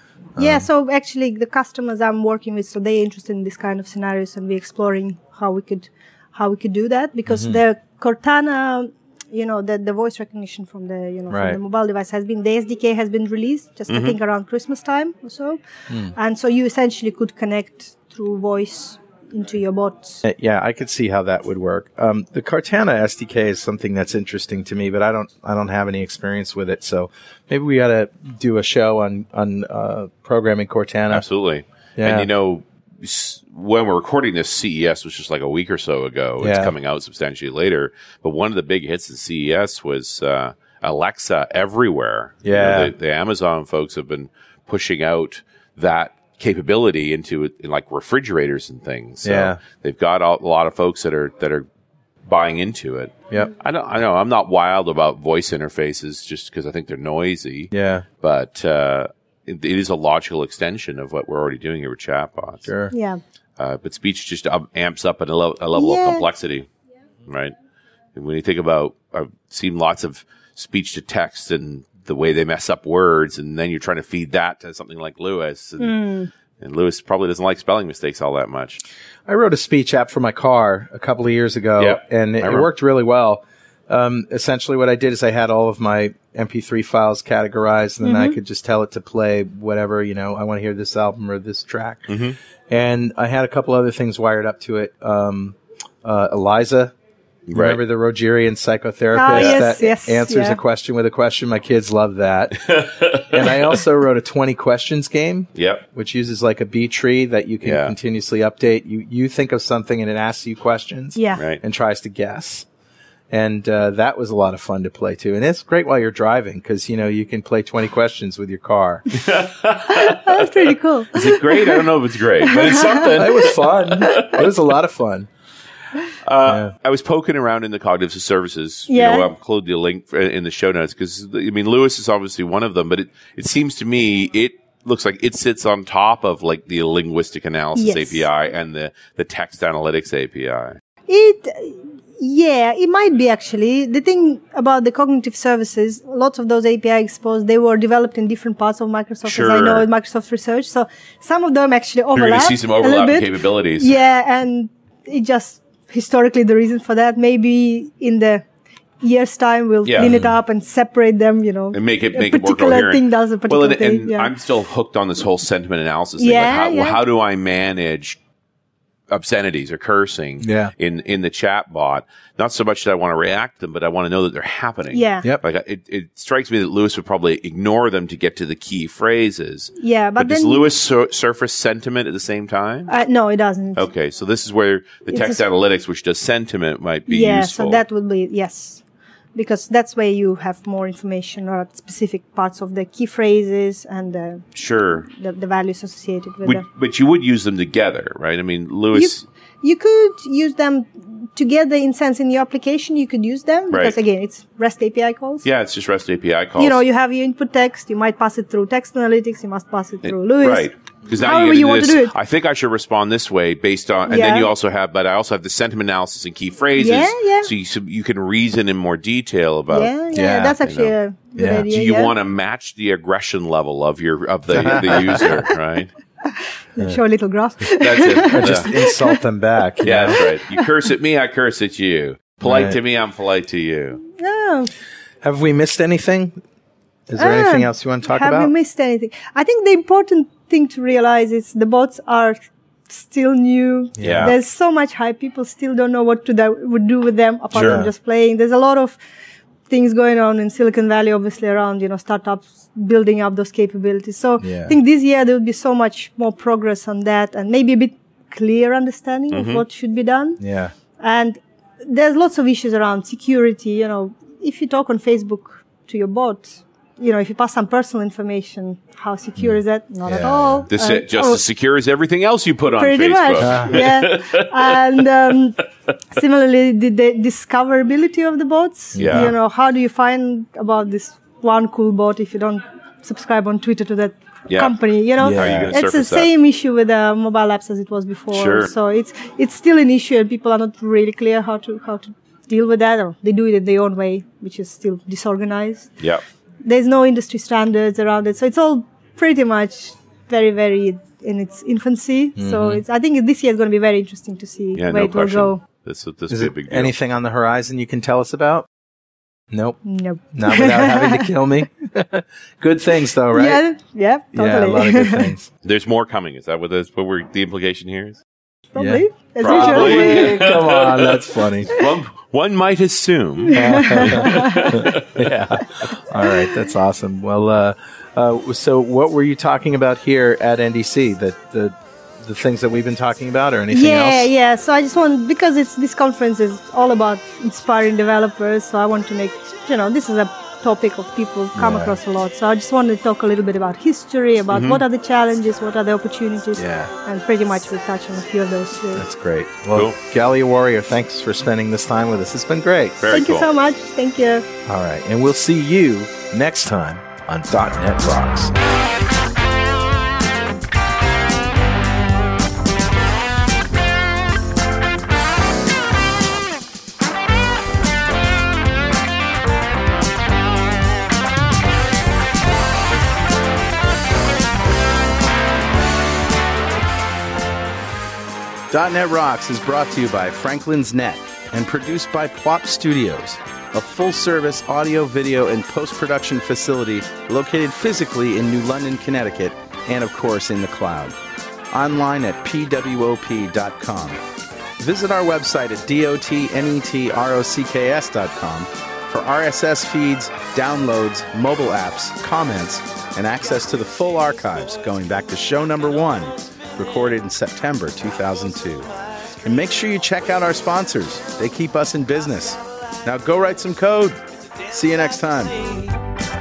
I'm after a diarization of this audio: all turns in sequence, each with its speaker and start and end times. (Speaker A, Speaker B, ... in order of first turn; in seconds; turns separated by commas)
Speaker A: 0.4-0.7, Speaker B: 0.4-15.6, Speaker A: 7.3-7.6, Speaker A: 11.3-11.6, Speaker C: 13.9-14.2, Speaker B: 16.1-20.2, Speaker A: 20.2-31.3, Speaker C: 31.1-51.7, Speaker A: 32.0-32.3, Speaker A: 36.4-36.8, Speaker A: 42.4-42.9, Speaker A: 49.2-49.6, Speaker C: 52.2-62.7, Speaker A: 57.7-58.1, Speaker A: 62.7-62.9, Speaker B: 62.9-63.2, Speaker C: 63.6-66.7, Speaker B: 65.8-66.3, Speaker C: 67.3-67.5, Speaker C: 68.2-76.0, Speaker B: 75.8-76.3, Speaker C: 76.6-78.8, Speaker A: 79.3-92.2, Speaker C: 81.8-82.7, Speaker B: 88.0-88.4, Speaker C: 92.1-92.4, Speaker A: 92.7-96.9, Speaker C: 97.5-97.8, Speaker A: 97.5-112.7, Speaker B: 99.1-100.6, Speaker C: 99.3-99.6, Speaker C: 102.6-103.6, Speaker C: 105.6-105.8, Speaker C: 107.6-107.9, Speaker B: 111.2-111.4, Speaker A: 113.3-119.2, Speaker C: 119.1-124.5, Speaker B: 119.9-121.9, Speaker B: 122.4-123.4, Speaker A: 123.1-125.3, Speaker C: 126.2-140.8, Speaker A: 126.5-126.7, Speaker B: 128.9-129.3, Speaker B: 137.8-138.3, Speaker B: 141.1-158.4, Speaker C: 149.2-149.9, Speaker C: 152.2-154.0, Speaker B: 159.0-164.3, Speaker C: 159.8-160.2, Speaker A: 160.0-160.4, Speaker C: 161.7-168.2, Speaker B: 166.2-167.0, Speaker C: 169.1-182.9, Speaker A: 170.4-170.7, Speaker B: 174.9-175.3, Speaker B: 179.8-180.7, Speaker B: 182.9-183.9, Speaker C: 183.8-187.8, Speaker B: 185.1-185.4, Speaker B: 187.1-188.8, Speaker B: 189.3-194.4, Speaker C: 194.6-195.1, Speaker B: 195.1-196.6, Speaker C: 196.4-199.2, Speaker B: 198.9-205.4, Speaker C: 203.7-204.0, Speaker C: 205.4-206.8, Speaker B: 206.6-210.7, Speaker C: 210.1-220.0, Speaker B: 211.2-212.1, Speaker B: 214.1-214.5, Speaker B: 216.8-217.5, Speaker B: 219.7-222.1, Speaker A: 220.1-220.6, Speaker C: 220.6-220.9, Speaker A: 221.4-221.7, Speaker C: 221.7-225.9, Speaker A: 224.5-225.4, Speaker B: 226.2-229.2, Speaker C: 227.8-228.7, Speaker A: 228.3-230.2, Speaker C: 229.8-234.0, Speaker B: 230.1-230.7, Speaker A: 232.4-232.8, Speaker B: 234.0-234.7, Speaker A: 235.2-236.4, Speaker A: 237.1-238.5, Speaker B: 237.2-242.4, Speaker B: 242.9-249.0, Speaker A: 244.0-244.3, Speaker C: 244.0-244.3, Speaker A: 247.5-247.9, Speaker C: 247.6-247.8, Speaker B: 249.7-260.4, Speaker A: 254.4-254.8, Speaker C: 259.3-259.6, Speaker A: 260.4-260.7, Speaker B: 261.0-271.4, Speaker A: 269.4-270.7, Speaker C: 270.7-275.0, Speaker B: 272.8-295.9, Speaker A: 273.4-273.9, Speaker A: 279.0-279.4, Speaker C: 279.0-279.4, Speaker C: 284.5-284.8, Speaker A: 285.2-285.7, Speaker C: 285.3-286.3, Speaker C: 288.3-288.7, Speaker B: 296.6-305.6, Speaker A: 302.4-302.8, Speaker C: 304.8-306.9, Speaker A: 306.3-308.7, Speaker A: 309.5-309.8, Speaker B: 309.9-311.3, Speaker A: 310.3-313.6, Speaker B: 313.3-315.3, Speaker A: 314.3-315.5, Speaker C: 315.6-318.2, Speaker B: 318.7-320.4, Speaker A: 318.8-321.8, Speaker C: 319.4-325.4, Speaker B: 323.5-325.0, Speaker A: 323.5-334.3, Speaker B: 326.2-326.7, Speaker B: 333.7-349.1, Speaker A: 341.6-342.0, Speaker C: 344.5-344.8, Speaker A: 346.6-346.9, Speaker A: 348.9-353.0, Speaker C: 353.0-353.5, Speaker B: 353.1-354.5, Speaker A: 354.7-358.6, Speaker A: 378.7-391.2, Speaker A: 391.7-394.2, Speaker A: 394.8-408.9, Speaker A: 409.4-415.9